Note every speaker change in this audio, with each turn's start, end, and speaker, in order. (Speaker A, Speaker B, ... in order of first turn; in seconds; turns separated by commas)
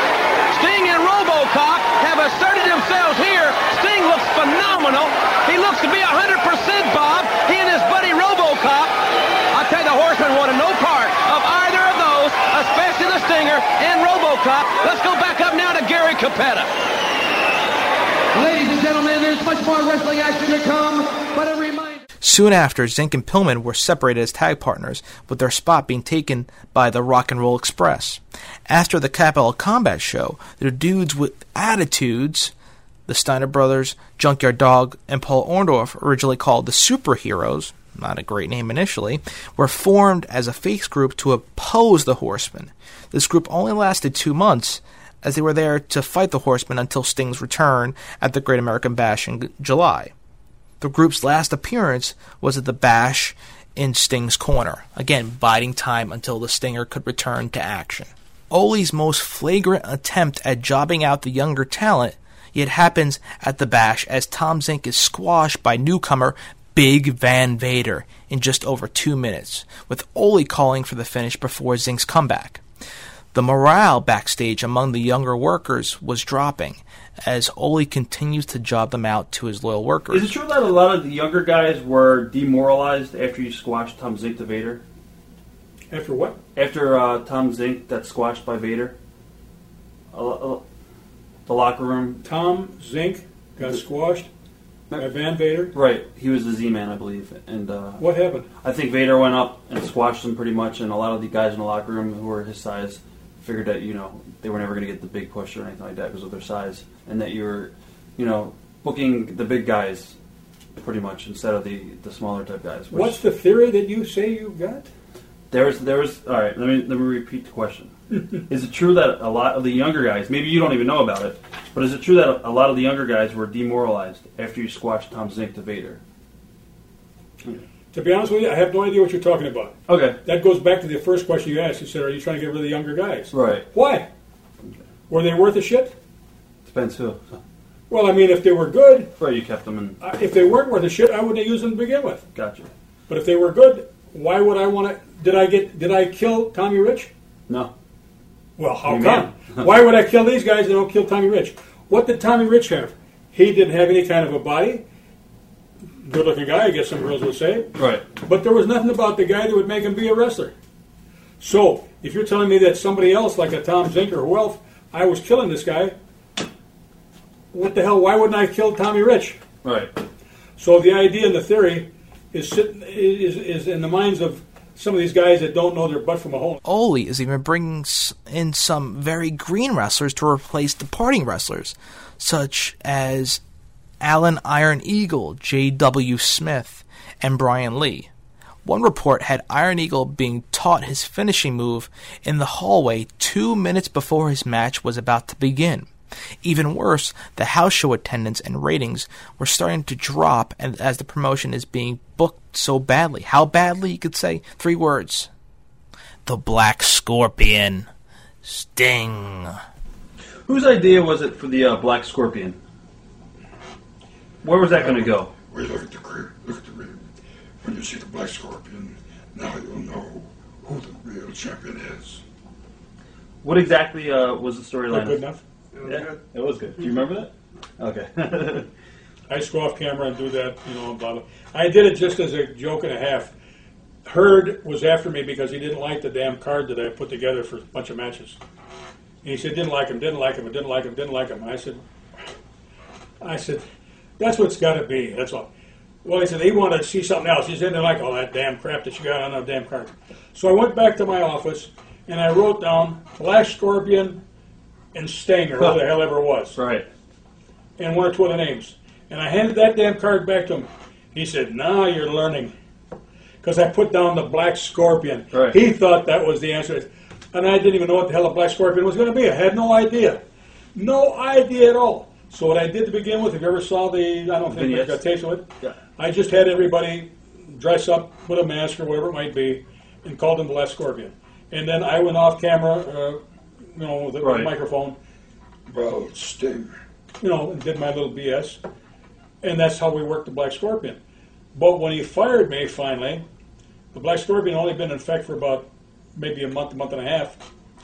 Speaker A: 0.5-8.9, Speaker A: 9.5-16.7, Speaker B: 18.3-22.0, Speaker C: 22.2-32.5, Speaker C: 33.1-50.1, Speaker C: 50.8-72.6, Speaker C: 73.3-80.3, Speaker D: 80.1-84.8, Speaker E: 85.9-86.4, Speaker D: 86.5-88.9, Speaker D: 90.1-90.6, Speaker D: 91.5-92.2, Speaker E: 92.2-94.3, Speaker D: 94.9-110.1, Speaker E: 95.0-95.7, Speaker E: 98.0-98.5, Speaker D: 110.8-113.2, Speaker E: 112.9-114.9, Speaker D: 115.5-117.9, Speaker D: 118.5-126.0, Speaker E: 127.9-134.1, Speaker D: 129.9-130.2, Speaker D: 133.3-133.7, Speaker E: 135.1-135.9, Speaker D: 136.6-137.4, Speaker E: 137.9-139.1, Speaker D: 139.2-139.9, Speaker E: 140.0-142.2, Speaker D: 142.3-142.7, Speaker E: 143.1-147.1, Speaker D: 147.5-147.7, Speaker E: 148.6-154.8, Speaker D: 148.8-149.7, Speaker E: 156.0-160.5, Speaker D: 157.8-158.1, Speaker E: 161.4-165.9, Speaker E: 167.5-169.4, Speaker D: 169.6-169.9, Speaker E: 170.6-176.6, Speaker C: 176.6-183.4, Speaker C: 184.0-188.1, Speaker C: 188.6-195.9, Speaker C: 196.4-205.3, Speaker C: 206.2-207.9, Speaker C: 208.4-209.5, Speaker D: 210.4-212.6, Speaker D: 214.4-215.3, Speaker F: 215.5-216.9, Speaker F: 217.6-222.2, Speaker D: 223.4-225.3, Speaker E: 224.9-225.4, Speaker D: 225.8-228.7, Speaker E: 229.3-233.3, Speaker E: 234.1-238.4, Speaker E: 239.2-241.8, Speaker E: 243.2-243.7, Speaker E: 244.2-245.5, Speaker E: 246.0-254.2, Speaker E: 254.9-256.6, Speaker D: 255.6-255.9, Speaker D: 256.5-256.9, Speaker E: 257.8-262.5, Speaker E: 263.4-270.2, Speaker D: 265.3-265.6, Speaker E: 270.7-283.2, Speaker D: 274.4-275.0, Speaker E: 283.7-284.9, Speaker D: 284.2-284.5, Speaker F: 285.7-286.7, Speaker E: 287.2-288.6, Speaker E: 289.4-291.0, Speaker E: 291.5-293.2, Speaker E: 293.9-297.4